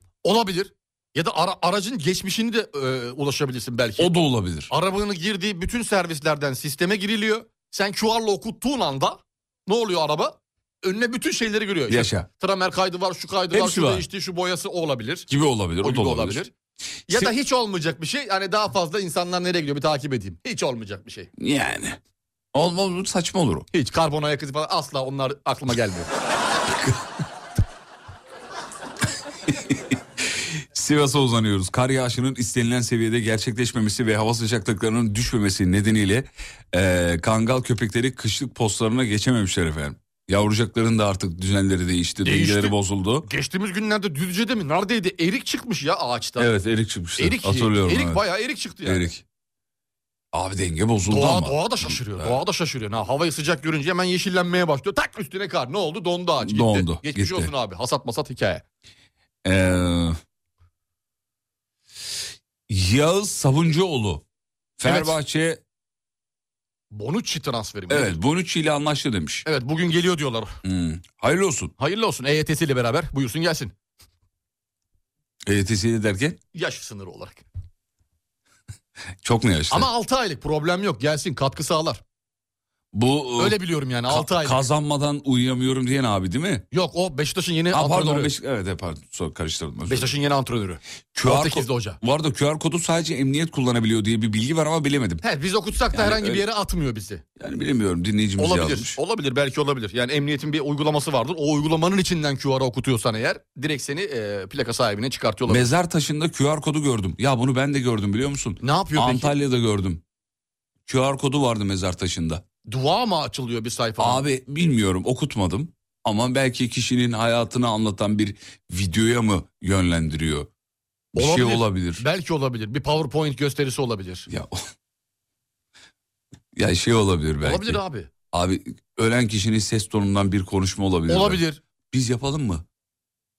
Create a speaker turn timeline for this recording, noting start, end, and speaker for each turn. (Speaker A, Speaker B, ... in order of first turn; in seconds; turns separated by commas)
Speaker A: 0.2-4.1, Speaker B: 4.0-4.7, Speaker A: 4.7-15.3, Speaker B: 11.9-12.3, Speaker B: 13.5-14.1, Speaker B: 15.3-16.4, Speaker A: 15.8-16.5, Speaker A: 17.1-21.3, Speaker B: 17.1-17.3, Speaker B: 21.4-22.0, Speaker B: 22.5-23.7, Speaker A: 23.7-26.1, Speaker B: 26.7-27.0, Speaker B: 29.5-43.3, Speaker A: 42.2-42.7, Speaker A: 43.2-46.5, Speaker B: 46.4-48.2, Speaker A: 47.2-49.1, Speaker B: 48.8-49.2, Speaker B: 50.3-52.4, Speaker A: 51.0-58.6, Speaker B: 56.4-57.5, Speaker B: 59.4-60.2, Speaker B: 62.7-64.2, Speaker B: 64.8-65.6, Speaker A: 64.8-65.1, Speaker A: 66.9-68.2, Speaker B: 67.9-69.5, Speaker A: 69.5-70.6, Speaker B: 70.6-71.7, Speaker A: 71.8-73.7, Speaker B: 75.4-76.4, Speaker A: 76.5-77.4, Speaker B: 79.2-79.9, Speaker A: 79.7-82.0, Speaker B: 82.9-86.6, Speaker A: 83.4-84.7, Speaker A: 86.7-88.3, Speaker B: 87.7-90.1, Speaker A: 89.8-92.0, Speaker B: 91.1-95.2, Speaker A: 95.2-97.2, Speaker B: 95.9-96.5, Speaker B: 97.4-99.0, Speaker A: 98.4-105.7, Speaker B: 105.5-110.0, Speaker A: 108.6-109.3, Speaker B: 110.8-112.4, Speaker A: 112.7-114.2, Speaker B: 114.0-120.5, Speaker B: 121.1-122.0, Speaker A: 121.1-124.3, Speaker B: 124.3-124.6, Speaker B: 126.5-127.8, Speaker A: 127.4-128.1, Speaker B: 128.3-132.6, Speaker A: 131.1-131.6